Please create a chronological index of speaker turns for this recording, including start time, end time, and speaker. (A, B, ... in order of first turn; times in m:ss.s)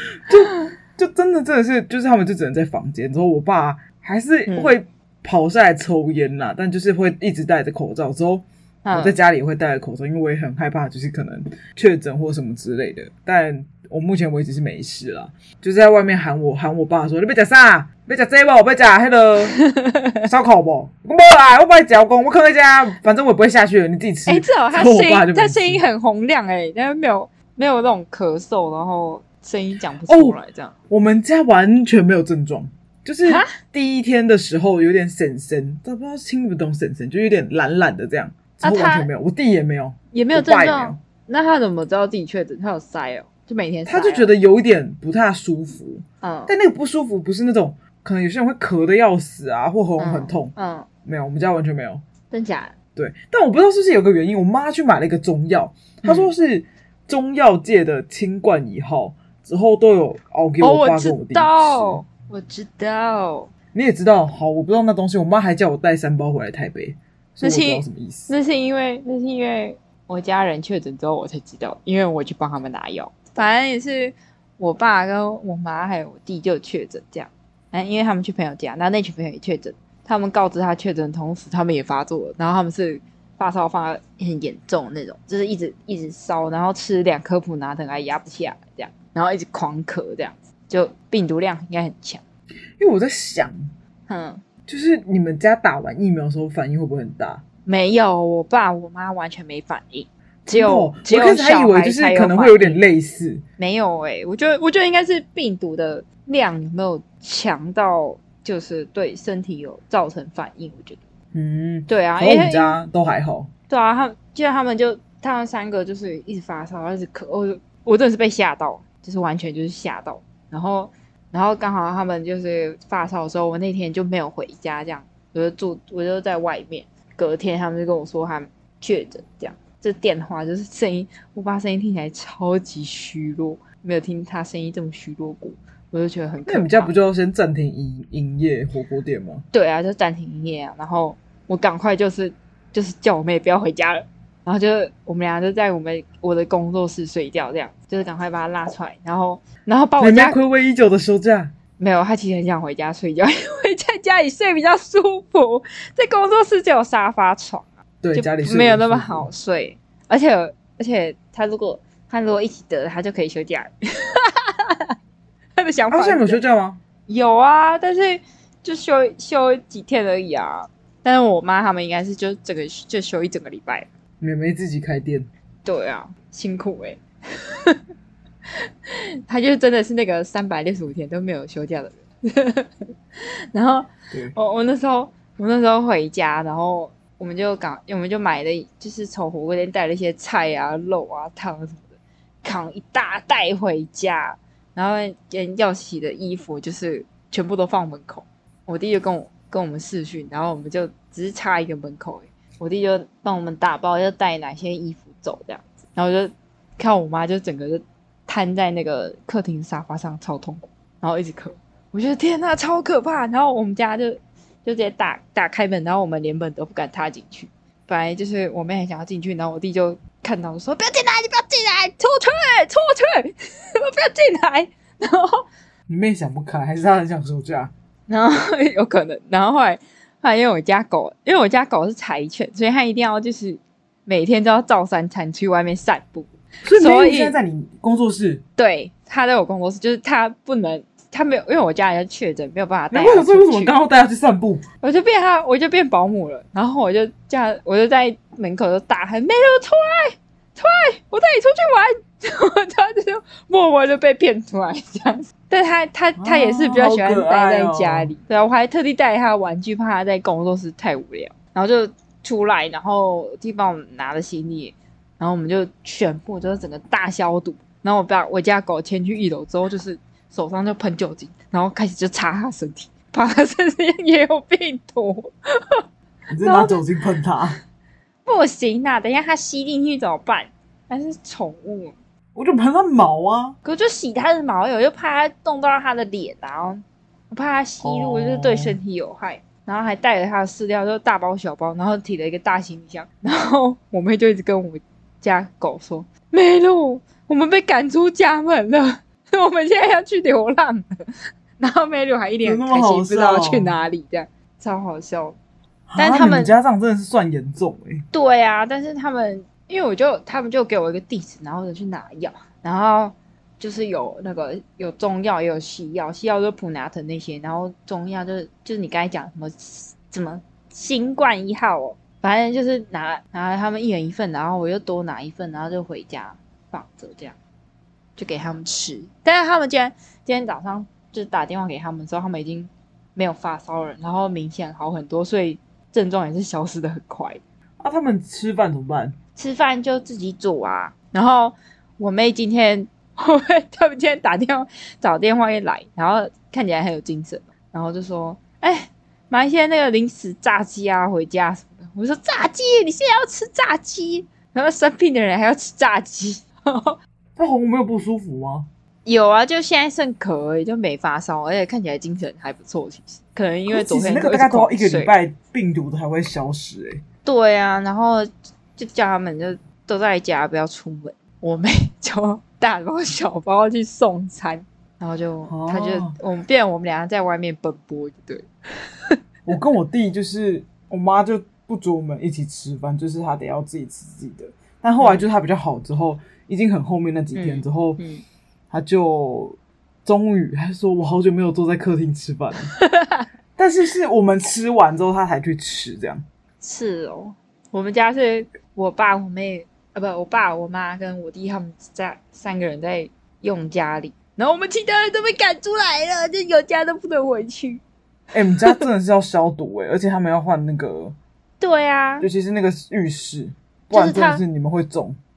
0:00.2-0:19.6 A
0:04.5-0:04.7 B
0:08.8-0:09.2 B
0:19.5-0:20.2 B
0:20.2-0:25.8 A
0:24.3-0:30.7 B
0:30.1-0:30.4 A
0:30.9-0:41.0 A
0:33.2-0:33.6 B
0:38.6-0:39.1 B
0:40.1-0:44.3 B
0:43.9-0:50.5 A
0:46.2-0:46.5 B
0:50.0-0:50.9 B
0:51.0-0:52.0 A
0:52.3-0:52.7 B
0:53.0-1:02.0 A
0:56.0-0:56.3 B
1:00.6-1:03.5 B
1:03.7-1:08.3 A
1:07.4-1:32.2 B
1:32.8-1:33.7 A
1:34.1-1:34.4 B
1:34.7-1:37.4 A
1:37.7-1:42.8 B
1:40.5-1:43.4 A
1:43.6-1:51.0 B
1:51.3-1:53.5 A
1:51.9-1:52.8 B
1:53.7-2:16.9 B
2:16.5-2:19.5 A
2:19.5-2:30.4 B
2:30.0-2:31.5 A
2:31.8-2:44.9 B
2:38.0-2:39.3 A
2:45.6-2:46.4 B
2:45.9-2:46.8 A
2:47.1-2:53.9 B
2:54.2-2:55.3 A
2:55.6-2:57.8 B
2:58.9-3:02.7 B
3:03.5-3:45.4 B
3:45.9-3:47.7 A
3:48.1-3:57.4 B
3:56.6-3:58.4 A
3:58.6-4:03.7 B
4:02.9-4:04.6 A
4:04.8-4:35.8 B
4:16.2-4:18.1 A
4:36.3-4:37.6 A
4:36.4-4:36.8 B
4:38.3-4:42.0 B
4:42.4-4:43.6 A
4:43.6-5:00.9 B
4:47.8-4:48.8 A
5:01.6-5:05.4 B
5:02.4-5:03.7 A
5:05.9-5:08.0 A
5:06.0-5:06.5 B
5:08.1-5:27.4 B
5:28.2-5:37.4 B
5:37.8-5:39.2 A
5:39.4-5:57.0 B
5:57.4-5:58.7 A
5:59.0-6:05.1 B
6:03.7-6:07.0 A
6:07.2-6:19.2 B
6:15.5-6:16.2 A
6:19.5-6:28.0 A
6:27.4-6:28.2 B
6:28.7-6:32.7 A
6:32.7-6:33.3 B
6:33.6-6:36.2 A
6:36.6-6:47.8 B
6:48.3-6:51.2 A
6:51.6-6:52.3 B
6:52.2-6:55.2 A
6:53.9-6:54.4 B